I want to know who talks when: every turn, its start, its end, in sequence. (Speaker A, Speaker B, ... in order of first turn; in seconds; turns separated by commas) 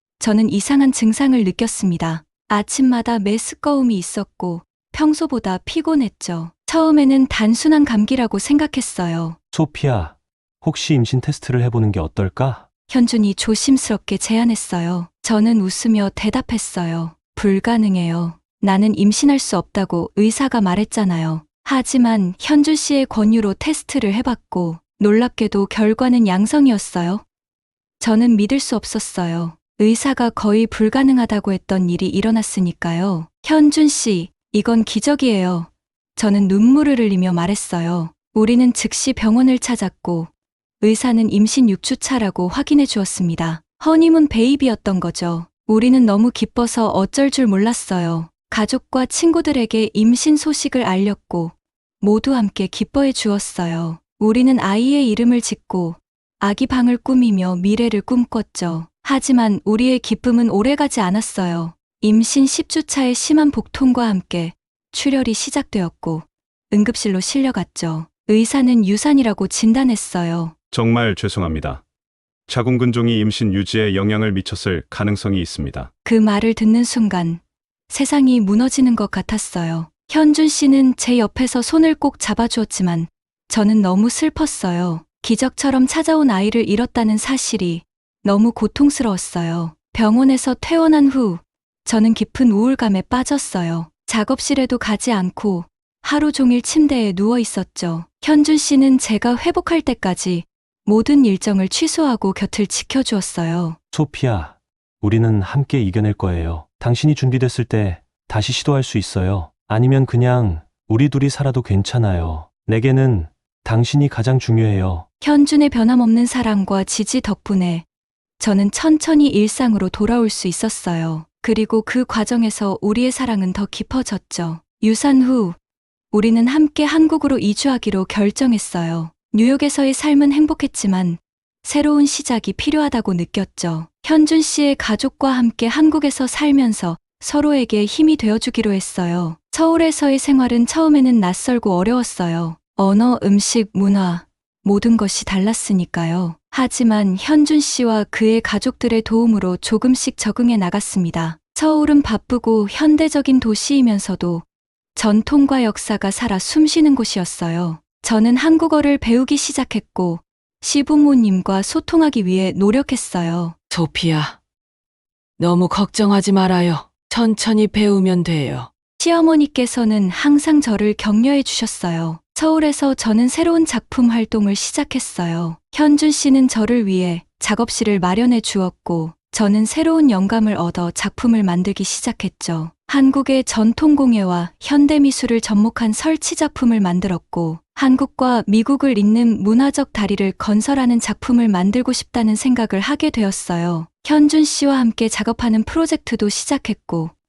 Speaker A: 0.2-9.4, Speaker B: 9.5-12.7, Speaker A: 12.9-27.2, Speaker A: 28.0-40.3, Speaker A: 40.8-70.5, Speaker C: 70.7-71.8, Speaker C: 72.5-75.9, Speaker A: 76.0-103.8, Speaker B: 103.9-115.1, Speaker A: 115.2-117.8, Speaker A: 118.4-125.6, Speaker A: 126.1-154.4, Speaker A: 154.9-163.5, Speaker D: 163.7-164.4, Speaker D: 165.4-168.7, Speaker A: 169.0-197.1